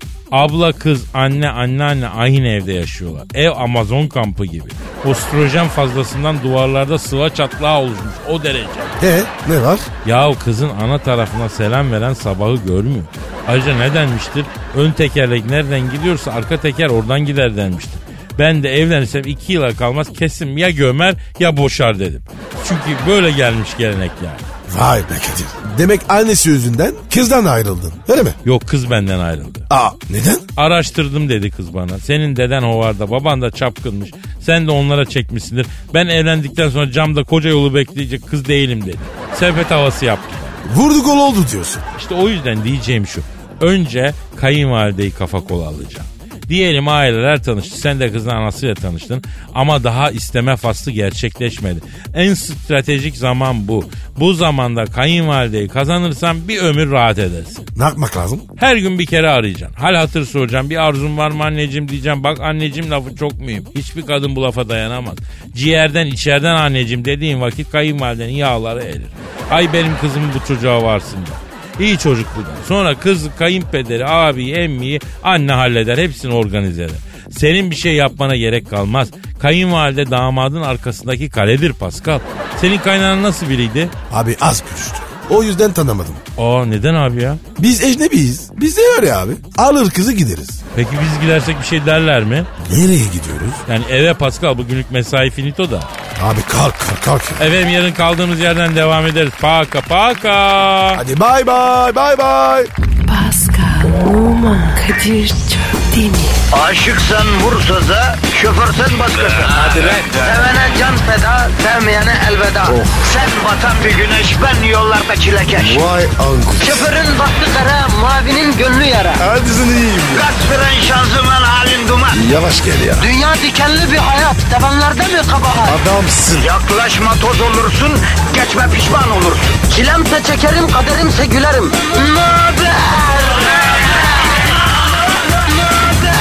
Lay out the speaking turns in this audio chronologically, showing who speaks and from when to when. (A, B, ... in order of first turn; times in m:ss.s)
0:00.3-0:08.9 A
0:09.0-0:09.9 B
0:10.0-0:24.4 A
0:24.7-0:28.4 B
0:28.4-0:29.7 A
0:29.7-0:30.4 B
0:30.6-0:40.6 A
0:40.6-0:41.8 B
0:41.9-0:57.7 A
0:57.8-0:58.4 B
0:58.6-1:23.9 A
1:24.1-1:26.2 B
1:26.4-1:27.4 A
1:27.6-1:30.6 B
1:30.7-1:32.5 A
1:32.6-1:33.6 B
1:33.7-1:35.9 A
1:36.2-1:37.4 B
1:37.4-1:41.0 A
1:41.0-1:42.7 B
1:43.0-1:46.4 C
1:46.5-1:55.9 D
1:49.5-1:50.4 B
1:52.7-1:53.0 B
1:55.6-1:56.7 B
1:56.6-1:59.2 D
1:59.2-2:00.2 B
2:00.1-2:02.2 D
2:02.1-2:03.1 B
2:03.0-2:05.8 D
2:05.7-2:06.5 B
2:06.4-2:13.8 D